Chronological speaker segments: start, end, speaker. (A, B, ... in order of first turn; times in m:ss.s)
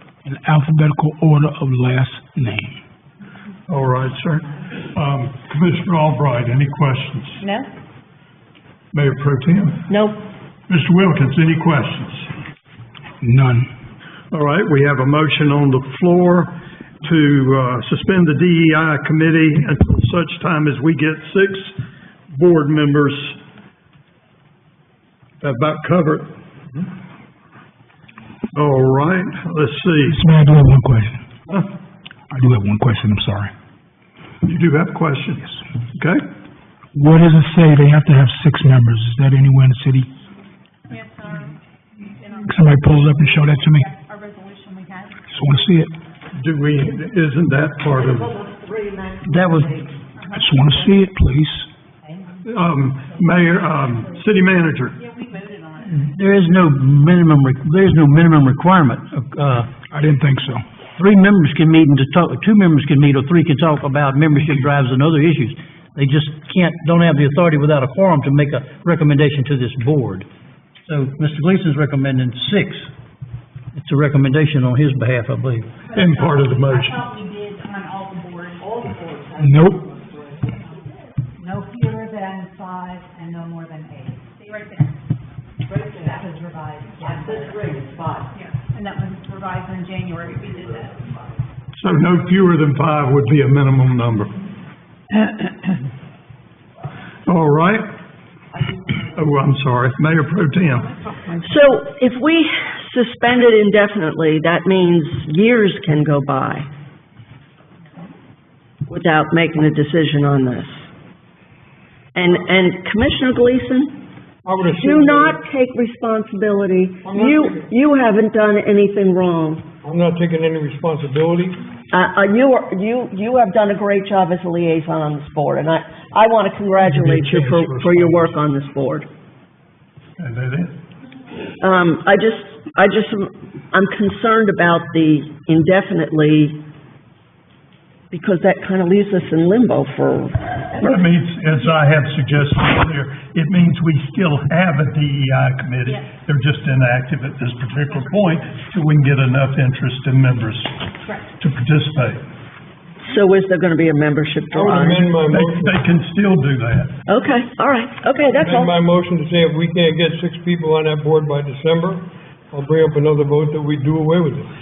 0:00.2-0:02.8 A
0:03.7-0:07.4 B
0:08.9-0:09.8 B
0:09.9-0:10.2 C
0:10.7-0:12.3 B
0:13.2-0:13.7 A
0:14.3-0:21.8 B
0:22.3-0:23.4 B
0:25.4-0:26.9 B
0:28.5-0:30.2 B
0:30.1-0:31.2 A
0:32.3-0:33.5 A
0:34.4-0:36.2 B
0:36.9-0:40.1 A
0:40.9-0:41.6 D
0:42.2-0:42.9 D
0:42.4-0:43.9 A
0:43.7-0:45.2 D
0:45.3-0:45.9 A
0:46.3-0:48.3 B
0:47.9-0:50.0 C
0:49.3-0:49.7 E
0:50.3-0:51.7 A
0:52.0-0:52.5 F
0:52.4-0:55.0 B
0:53.1-0:54.3 F
0:55.0-0:55.9 D
0:55.9-0:59.7 E
0:59.9-1:00.6 A
1:01.0-1:10.3 E
1:10.9-1:12.9 E
1:13.7-1:15.7 E
1:15.9-1:18.6 D
1:15.9-1:17.1 B
1:18.6-1:20.5 C
1:19.4-1:19.9 A
1:21.4-1:24.4 F
1:24.4-1:24.9 D
1:25.7-1:26.2 C
1:25.9-1:28.1 F
1:27.0-1:28.3 C
1:28.4-1:31.1 D
1:31.8-1:34.4 B
1:35.1-1:35.8 B
1:37.3-1:37.9 B
1:39.1-1:41.0 B
1:41.3-1:46.7 C
1:48.9-1:50.9 C
1:52.2-1:54.0 C
1:54.4-1:55.4 G
1:54.7-1:59.6 C
1:57.0-1:57.7 G
1:59.8-2:01.6 G
2:01.9-2:09.1 C
2:06.8-2:08.3 B
2:10.2-2:10.8 B
2:11.6-2:16.6 C
2:18.1-2:20.5 C
2:20.7-2:30.8 B
2:31.4-2:32.2 B
2:33.0-2:35.1 C
2:34.5-2:35.8 G
2:35.3-2:37.0 B
2:37.1-2:38.7 C
2:38.3-2:44.5 G